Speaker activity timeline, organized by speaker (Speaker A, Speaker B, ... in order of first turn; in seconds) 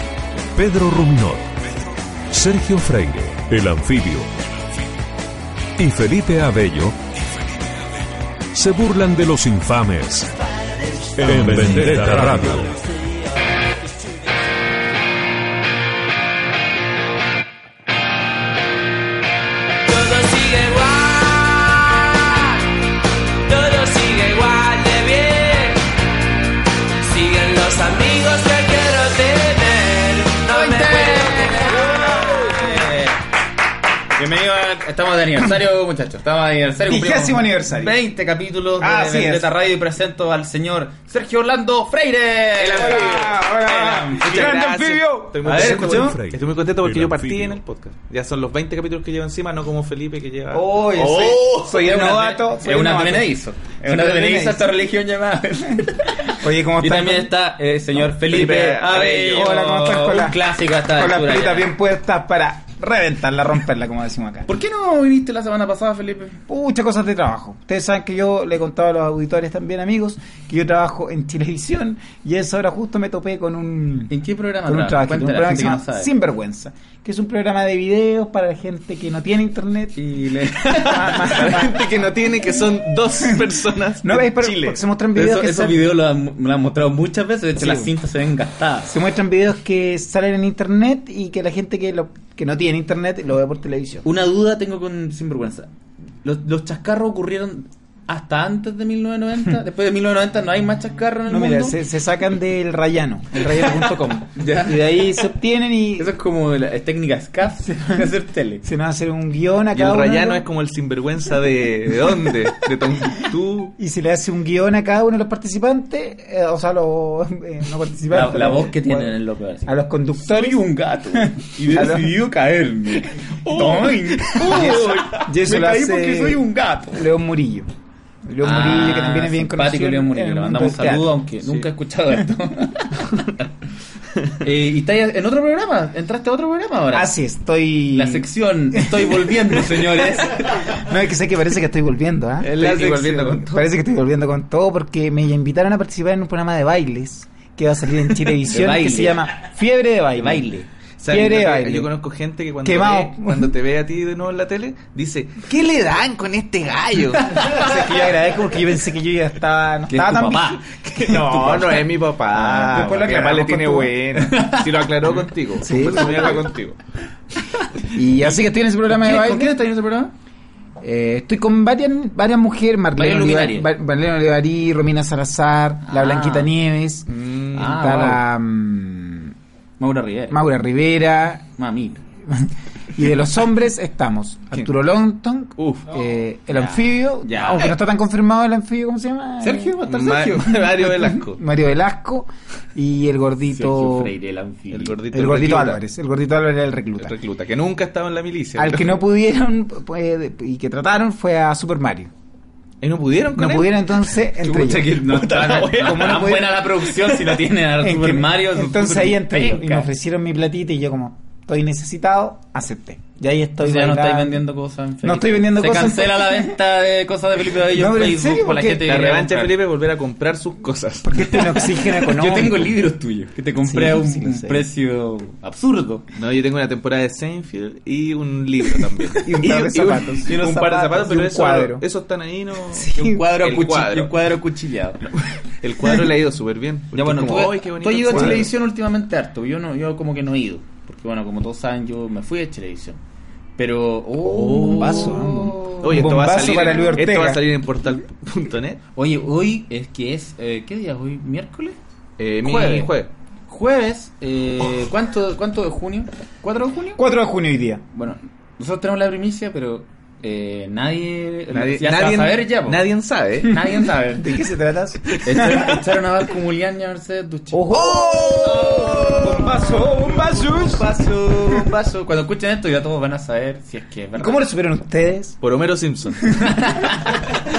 Speaker A: 0.5-1.6, 2.3-4.3, 5.8-7.0, 8.5-10.3, 11.2-12.8, 45.5-47.6
Speaker B: 19.8-22.6, 23.4-25.8, 27.0-31.9
Speaker C: 30.5-33.2, 34.1-44.5, 45.4-46.1, 51.7-61.7, 64.5-66.4, 74.1-76.1, 80.0-81.5, 85.1-88.9, 94.0-95.7, 96.2-101.8, 104.3-105.1, 106.0-108.6, 118.1-127.0, 128.4-133.1, 134.4-137.1, 137.9-140.8, 142.4-143.4, 148.4-149.3, 150.2-150.6, 159.9-160.6, 162.5-163.1, 164.2-164.9, 168.9-170.1, 172.9-173.7, 175.9-176.5, 177.5-178.2, 179.8-180.5, 181.6-182.0, 186.5-187.8, 189.4-190.6, 193.5-195.0, 204.4-209.9, 213.6-219.6, 221.3-226.0, 230.3-230.8, 232.9-235.1, 236.9-243.0, 243.6-246.2, 248.9-251.8, 252.4-252.9, 253.5-257.0, 257.9-262.9, 263.4-264.4, 265.2-267.8, 268.4-274.4, 276.3-277.4
Speaker D: 31.8-32.8, 36.8-37.9, 38.8-39.5, 42.7-46.2, 50.5-54.7, 55.8-57.3, 59.2-64.5, 66.5-74.1, 74.6-81.9, 84.0-85.8, 87.6-87.9, 88.9-94.0, 101.3-106.1, 108.6-110.5, 113.8-122.1, 124.5-127.7, 128.2-131.2, 136.9-151.9, 152.6-153.5, 157.3-164.1, 165.6-166.5, 167.9-169.6, 170.8-179.3, 180.3-181.5, 182.2-194.1, 195.1-197.2, 198.6-202.1, 203.3-205.0, 205.7-206.7, 207.8-214.4, 215.0-216.6, 217.7-218.9, 221.0-222.8, 223.6-224.7, 229.2-231.8, 232.7-233.2, 238.1-238.4, 244.4-247.4, 256.9-257.8, 264.0-265.1, 267.5-270.9, 274.1-275.4
Speaker E: 42.6-43.4, 44.2-51.8, 58.1-59.4, 81.0-84.8, 109.7-113.7, 123.4-125.2, 142.4-143.6, 151.0-157.6, 160.8-166.8, 177.1-177.6, 185.6-185.9, 189.8-191.4, 194.7-195.8, 197.0-199.0, 202.8-206.4, 218.8-221.5, 226.2-234.1, 235.6-238.5, 244.2-248.8, 252.2-253.1, 261.5-263.6, 265.1-265.8, 267.7-269.7, 270.2-270.6, 275.4-276.3